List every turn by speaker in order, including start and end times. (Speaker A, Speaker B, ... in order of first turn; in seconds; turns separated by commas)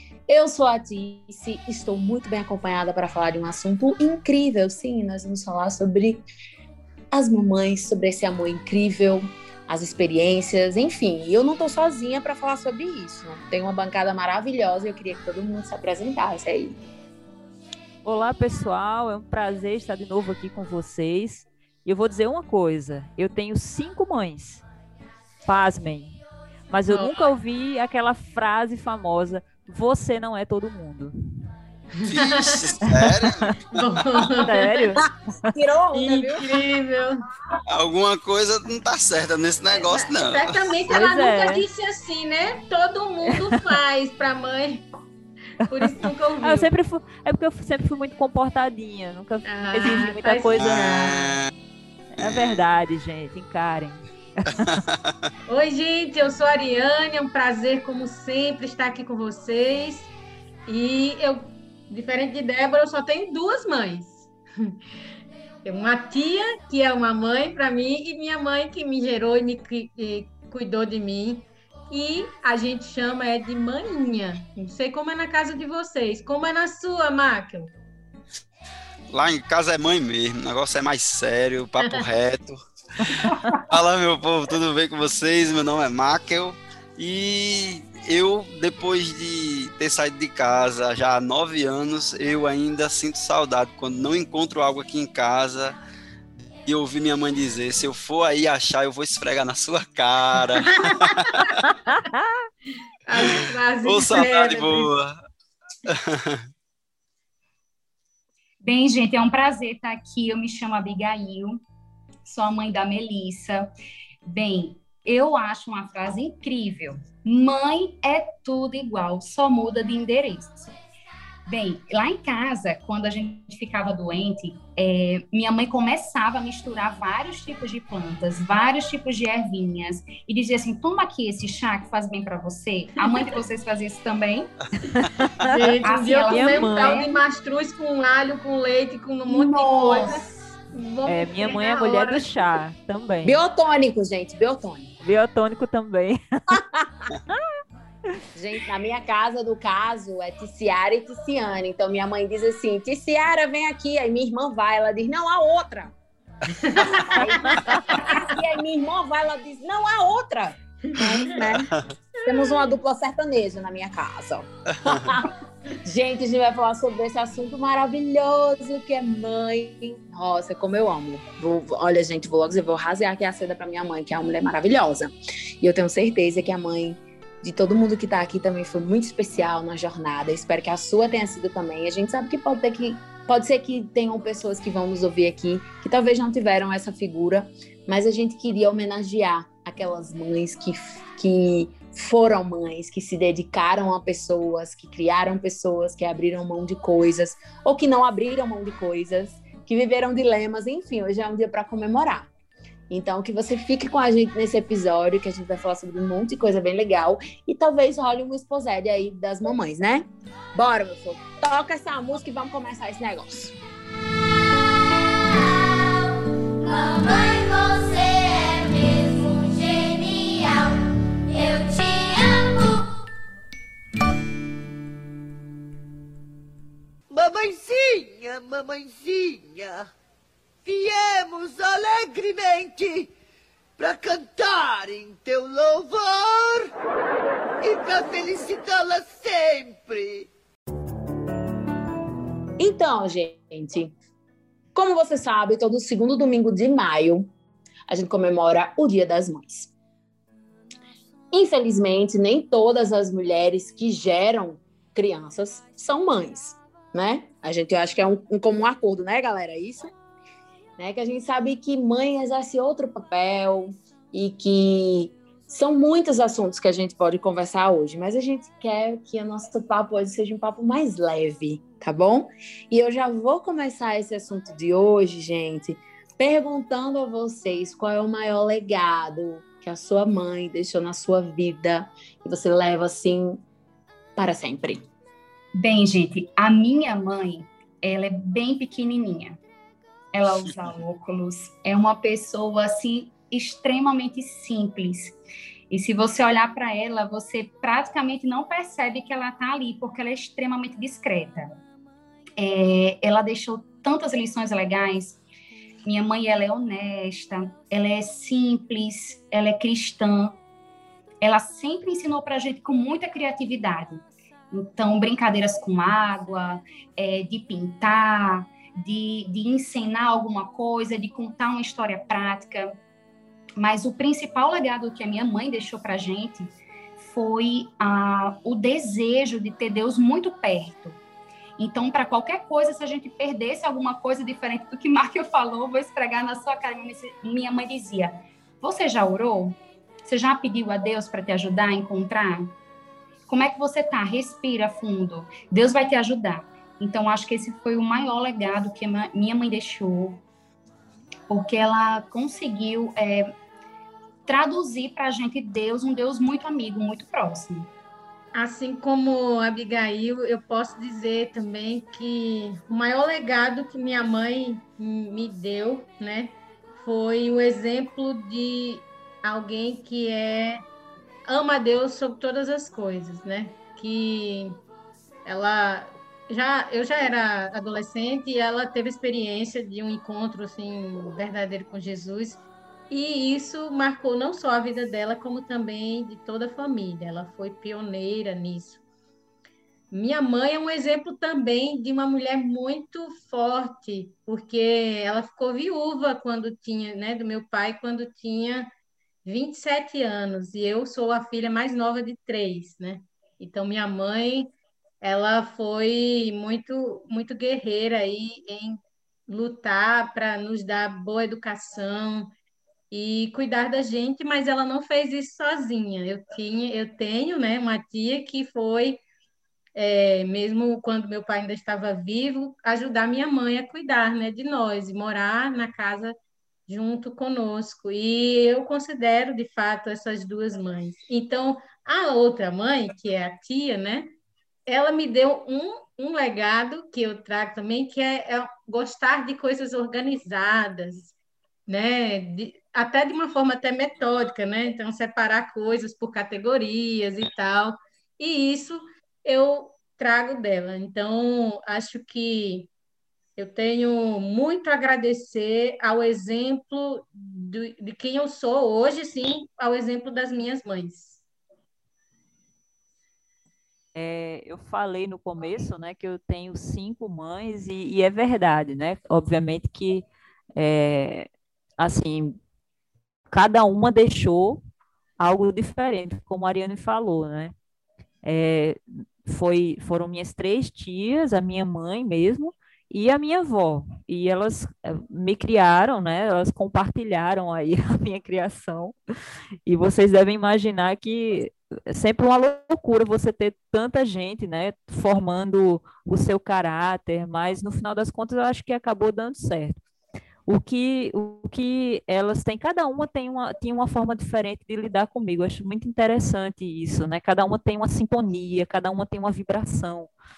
Speaker A: 0.3-6.2, Speaker A: 7.1-16.8, Speaker B: 18.0-24.6, Speaker B: 25.4-26.2, Speaker B: 26.7-31.1, Speaker C: 26.9-27.1, Speaker C: 32.0-32.6, Speaker D: 32.1-34.0, Speaker B: 32.8-33.5, Speaker C: 33.7-34.9, Speaker B: 34.4-35.1, Speaker A: 35.5-36.6, Speaker C: 35.9-37.2, Speaker D: 37.7-40.8, Speaker C: 39.7-44.9, Speaker B: 40.9-41.6, Speaker B: 43.3-43.6, Speaker C: 45.6-46.7, Speaker B: 45.6-51.3, Speaker C: 49.4-51.3, Speaker D: 50.5-51.5, Speaker B: 52.1-54.8, Speaker D: 52.2-52.6, Speaker D: 54.6-55.0, Speaker C: 55.5-60.1, Speaker C: 60.6-64.8, Speaker C: 65.6-77.7, Speaker D: 79.1-95.8, Speaker D: 96.6-101.7, Speaker C: 100.6-101.4, Speaker B: 101.9-102.2, Speaker C: 103.0-104.9, Speaker D: 103.2-105.2, Speaker D: 105.8-106.5, Speaker E: 108.6-111.6, Speaker E: 112.2-113.7, Speaker E: 114.2-120.7, Speaker E: 121.5-134.5, Speaker B: 134.9-137.0, Speaker C: 135.4-142.3, Speaker E: 135.8-137.2, Speaker E: 139.3-140.2, Speaker B: 141.1-143.4, Speaker A: 143.2-144.9, Speaker B: 145.0-146.6, Speaker A: 146.6-146.8, Speaker A: 148.3-155.9, Speaker C: 156.6-158.3, Speaker A: 156.8-165.3, Speaker C: 160.9-161.4, Speaker C: 162.3-162.7, Speaker D: 164.8-165.2, Speaker A: 165.8-202.3, Speaker A: 202.9-213.6, Speaker F: 215.3-222.9, Speaker G: 227.1-229.9, Speaker G: 230.6-233.1, Speaker G: 233.8-236.7, Speaker G: 237.6-240.3, Speaker A: 242.6-243.9, Speaker A: 244.7-247.3, Speaker A: 247.9-249.7, Speaker A: 251.3-259.9, Speaker A: 260.8-283.4, Speaker A: 284.1-284.9, Speaker E: 285.5-289.4, Speaker E: 290.1-295.1, Speaker E: 295.7-301.5, Speaker E: 302.4-305.2, Speaker E: 305.8-310.4, Speaker E: 311.2-322.7, Speaker E: 323.6-331.0, Speaker E: 331.6-342.5, Speaker E: 343.3-350.2, Speaker E: 351.3-353.3, Speaker E: 354.3-357.7, Speaker C: 358.3-370.6, Speaker C: 371.2-374.6, Speaker C: 375.2-388.8, Speaker C: 389.9-398.7, Speaker C: 399.2-404.5, Speaker C: 405.0-412.3, Speaker C: 412.9-419.0, Speaker C: 419.8-426.1, Speaker C: 426.7-434.1, Speaker C: 434.7-441.1, Speaker C: 441.7-452.7, Speaker C: 453.4-461.2, Speaker B: 463.9-472.4, Speaker B: 473.3-474.6, Speaker B: 475.2-477.5, Speaker B: 478.2-488.9, Speaker B: 489.6-499.8, Speaker B: 500.5-510.1